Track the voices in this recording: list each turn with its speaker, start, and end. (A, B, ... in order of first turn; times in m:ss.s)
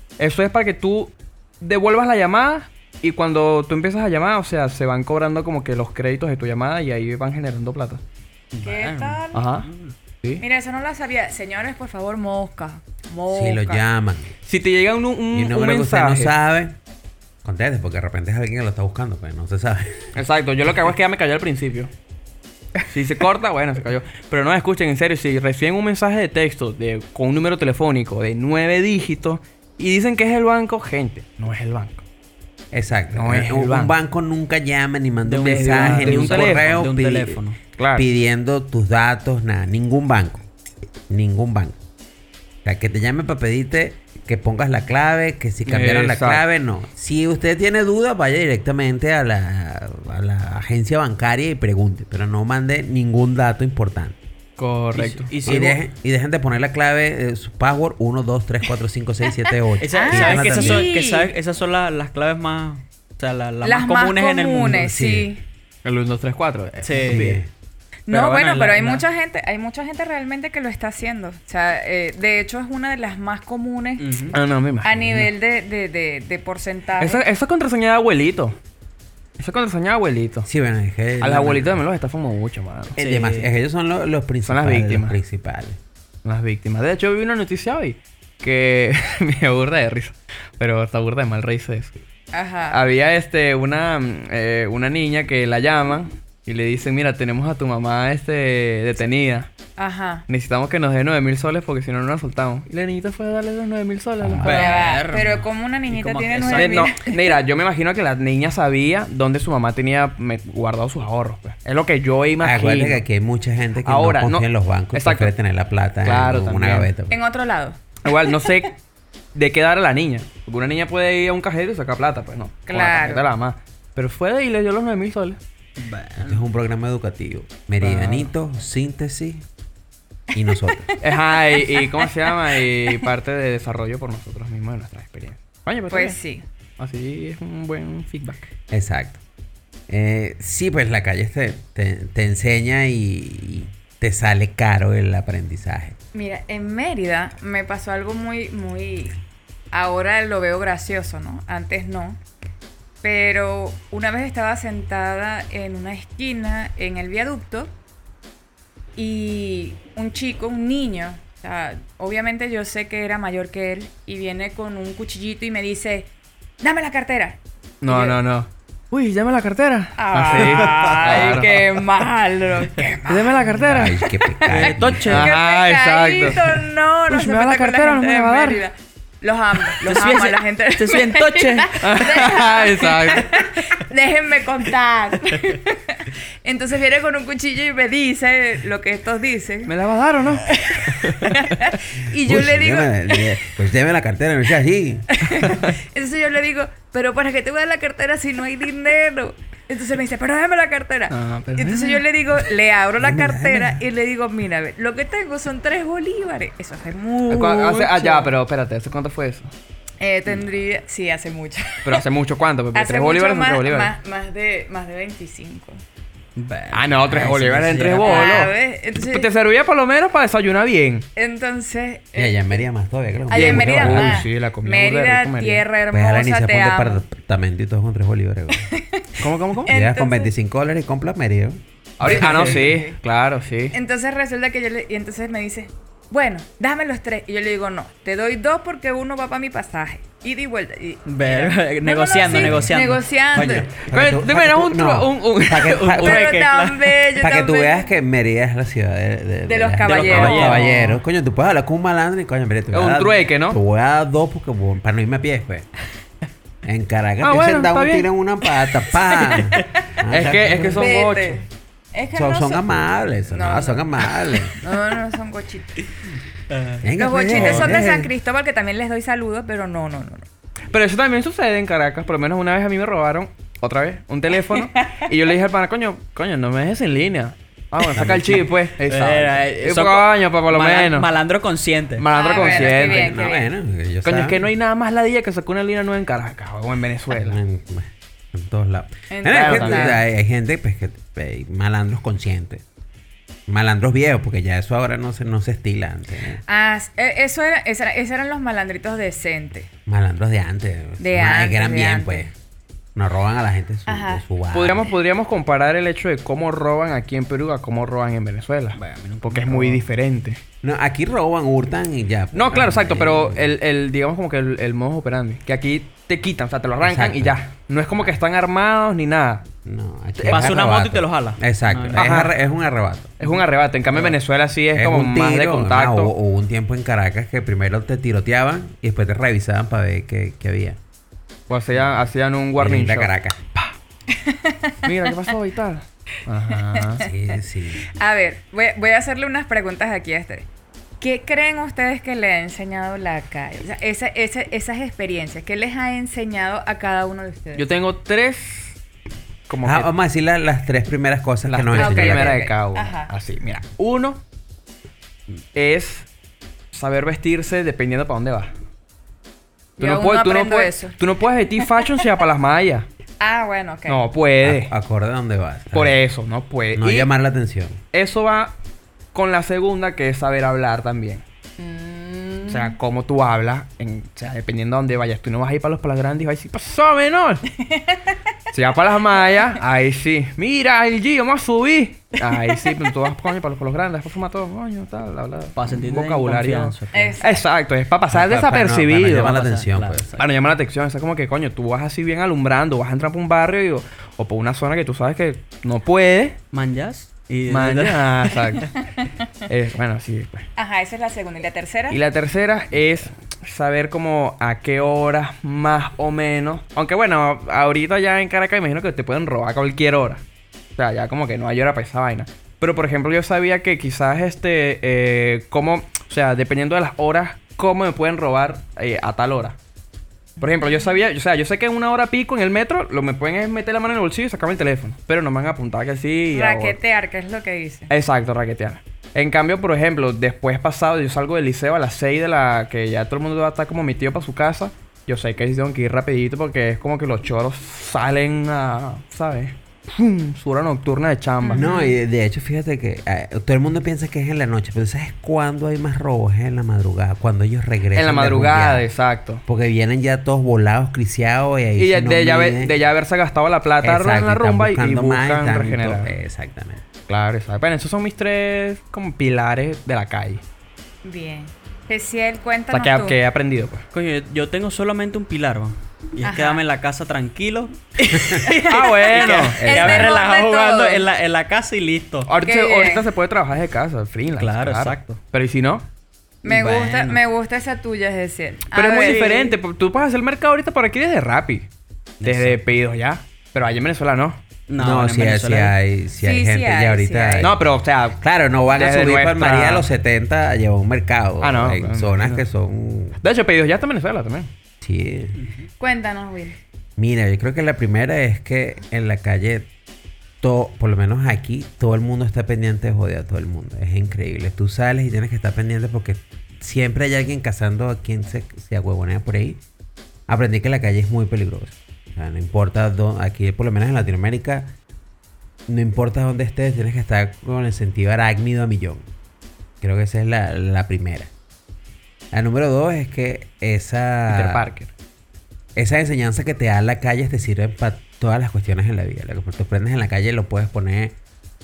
0:00.2-0:08.0 A
0:08.5-0:09.9 B
0:08.6-0:09.5 C
0:09.3-0:09.7 A
0:10.4-0:13.8 C
0:13.3-0:14.4 D
0:14.5-0:16.3 A
0:15.3-0:16.8 D
0:17.4-0:20.1 D
0:20.2-0:21.9 A
0:22.9-0:32.0 A
0:32.7-0:37.4 D
0:33.1-0:33.9 A
0:35.2-0:37.6 B
0:35.4-0:36.7 A
0:37.8-0:38.1 A
0:38.0-0:40.5 D
0:41.1-0:41.8 D
0:42.6-0:54.2 D
0:45.7-0:46.4 A
0:54.6-0:55.3 A
0:55.0-0:55.8 B
0:55.4-1:00.9 D
0:59.8-1:04.9 B
0:59.9-1:01.3 C
1:03.6-1:05.4 C
1:04.8-1:05.3 D
1:05.8-1:07.4 A
1:06.8-1:07.4 B
1:06.9-1:07.5 D
1:08.1-1:17.2 C
1:08.1-1:09.0 B
1:14.0-1:14.4 B
1:14.3-1:15.3 A
1:17.0-1:18.6 A
1:19.4-1:20.5 A
1:20.5-1:21.8 D
1:21.2-1:23.0 A
1:23.0-1:25.8 D
1:23.0-1:23.5 B
1:24.4-1:25.2 A
1:26.2-1:31.9 A
1:32.3-1:32.8 C
1:32.7-1:39.5 A
1:39.8-1:40.2 C
1:40.3-1:44.8 A
1:44.2-1:44.8 D
1:44.4-1:46.9 B
1:44.4-1:47.2 C
1:46.5-1:53.0 A
1:52.4-1:57.2 D
1:53.8-1:55.3 A
1:56.0-1:56.9 A
1:57.1-1:58.5 C
1:58.0-1:58.8 A
1:59.4-2:05.4 A
2:02.7-2:03.3 C
2:05.8-2:06.4 B
2:06.2-2:09.4 D
2:07.8-2:08.3 A
2:10.3-2:10.9 D
2:10.5-2:12.6 C
2:11.0-2:16.2 A
2:15.9-2:16.4 C
2:16.8-2:18.5 A
2:18.7-2:19.2 D
2:19.9-2:26.0 D
2:26.1-2:29.2 C
2:29.7-2:32.2 C
2:33.0-2:37.7 C
2:39.0-2:46.1 C
2:46.6-2:48.2 C
2:47.8-2:51.7 A
2:50.0-2:53.5 C
2:53.1-2:54.0 A
2:53.6-2:55.3 D
2:54.5-2:55.3 B
2:54.5-3:09.7 C
2:55.1-2:58.6 A
2:59.8-3:02.2 B
3:01.8-3:03.4 A
3:09.7-3:11.4 A
3:10.5-3:13.4 C
3:12.1-3:15.2 D
3:15.1-3:28.3 C
3:15.4-3:15.7 A
3:21.1-3:22.0 A
3:23.0-3:23.8 D
3:27.3-3:29.5 A
3:30.0-3:32.0 C
3:31.8-3:33.9 A
3:32.7-3:35.8 C
3:36.4-3:38.5 B
3:36.7-3:41.1 A
3:38.0-3:39.3 C
3:41.2-3:42.6 C
3:42.2-3:44.3 D
3:43.3-3:47.0 C
3:43.3-3:45.6 A
3:45.9-3:48.7 D
3:48.6-3:50.3 C
3:49.2-3:49.7 A
3:49.7-3:52.4 D
3:52.0-3:53.8 A
3:52.1-3:52.6 B
3:52.1-3:53.0 C
3:53.7-4:03.7 C
4:01.1-4:03.0 B
4:03.3-4:06.3 D
4:03.9-4:06.3 A
4:05.7-4:06.9 B
4:06.0-4:07.9 C
4:07.2-4:15.7 D
4:09.5-4:10.7 C
4:09.8-4:10.7 A
4:10.1-4:11.0 B
4:12.7-4:13.6 A
4:16.6-4:21.0 D
4:17.2-4:18.1 A
4:19.0-4:19.9 C
4:20.1-4:21.4 A
4:20.8-4:22.7 C
4:22.1-4:24.6 D
4:23.3-4:25.8 C
4:26.5-4:26.8 B
4:26.8-4:28.1 D
4:27.0-4:30.3 C
4:27.4-4:27.7 A
4:30.7-4:41.1 A
4:34.5-4:35.1 C
4:37.8-4:38.5 D
4:38.8-4:42.1 B
4:42.0-4:43.1 A
4:42.1-4:43.5 C
4:42.4-4:44.4 D
4:44.0-4:47.4 A
4:47.1-4:52.6 D
4:49.1-4:50.0 C
4:49.3-4:50.0 A
4:53.5-4:56.4 D
4:56.5-4:59.7 C
4:59.9-5:02.3 D
5:01.0-5:02.3 C
5:03.0-5:04.9 D
5:03.9-5:04.2 C
5:04.5-5:10.4 A
5:08.8-5:09.8 B
5:10.6-5:13.5 D
5:12.3-5:19.5 A
5:16.8-5:17.4 D
5:19.6-5:23.2 D
5:20.2-5:20.6 A
5:20.2-5:22.3 B
5:22.0-5:22.3 A
5:23.2-5:26.1 A
5:24.7-5:30.8 D
5:31.5-5:33.7 A
5:32.6-5:33.4 D
5:34.1-5:35.1 C
5:34.8-5:37.0 A
5:36.5-5:37.1 C
5:37.0-5:37.8 D
5:38.0-5:40.5 C
5:41.0-5:47.7 C
5:47.6-5:48.8 A
5:49.5-5:49.9 A
5:49.6-5:52.4 D
5:51.5-5:54.2 A
5:51.8-5:53.1 C
5:55.6-5:56.1 A
5:56.7-5:58.5 A
5:59.8-6:01.0 C
5:59.8-6:02.9 A
6:01.6-6:01.9 C
6:03.2-6:04.0 C
6:03.9-6:04.7 A
6:04.4-6:06.0 D
6:05.7-6:07.1 A
6:06.7-6:07.8 D
6:07.9-6:08.5 A
6:09.1-6:11.2 A
6:11.6-6:12.8 C
6:12.5-6:17.4 A
6:17.6-6:18.2 C
6:18.5-6:29.4 A
6:25.6-6:27.2 B
6:26.9-6:27.4 C
6:28.1-6:30.1 D
6:29.2-6:30.2 B
6:30.2-6:36.4 A
6:36.5-6:38.4 B
6:37.5-6:38.7 A
6:39.5-6:40.5 A
6:40.6-6:42.0 C
6:41.9-6:50.2 A
6:50.8-6:59.6 A
7:00.4-7:01.0 C
7:00.4-7:06.8 A
7:06.3-7:07.9 C
7:07.9-7:21.7 A
7:21.4-7:22.0 C
7:21.5-7:28.9 D
7:27.9-7:29.4 A
7:29.5-7:32.8 D
7:31.8-7:36.1 A
7:33.8-7:36.8 D
7:37.1-7:40.4 A
7:41.0-7:43.2 C
7:42.7-7:43.8 A
7:43.9-7:52.3 B
7:46.2-7:46.6 C
7:48.1-7:51.0 C
7:48.6-7:50.1 A
7:49.6-7:50.0 D
7:52.3-7:55.8 A
7:52.4-7:53.1 C
7:54.3-7:55.2 B
7:56.4-7:57.2 B
7:56.4-7:59.6 C
7:58.7-8:01.7 A
8:02.2-8:02.6 B
8:02.2-8:04.4 A
8:04.7-8:05.7 B
8:04.8-8:07.6 D
8:06.2-8:07.5 C
8:07.4-8:08.2 A
8:08.2-8:13.2 D
8:08.7-8:09.9 A
8:11.4-8:12.4 A
8:13.2-8:14.5 A
8:14.8-8:15.4 D
8:15.8-8:16.6 C
8:17.0-8:19.7 D
8:20.4-8:29.6 D
8:30.3-8:34.7 D
8:35.7-8:39.1 D
8:39.8-8:41.3 D
8:42.3-8:44.7 D
8:44.3-8:44.9 A
8:45.8-8:51.2 D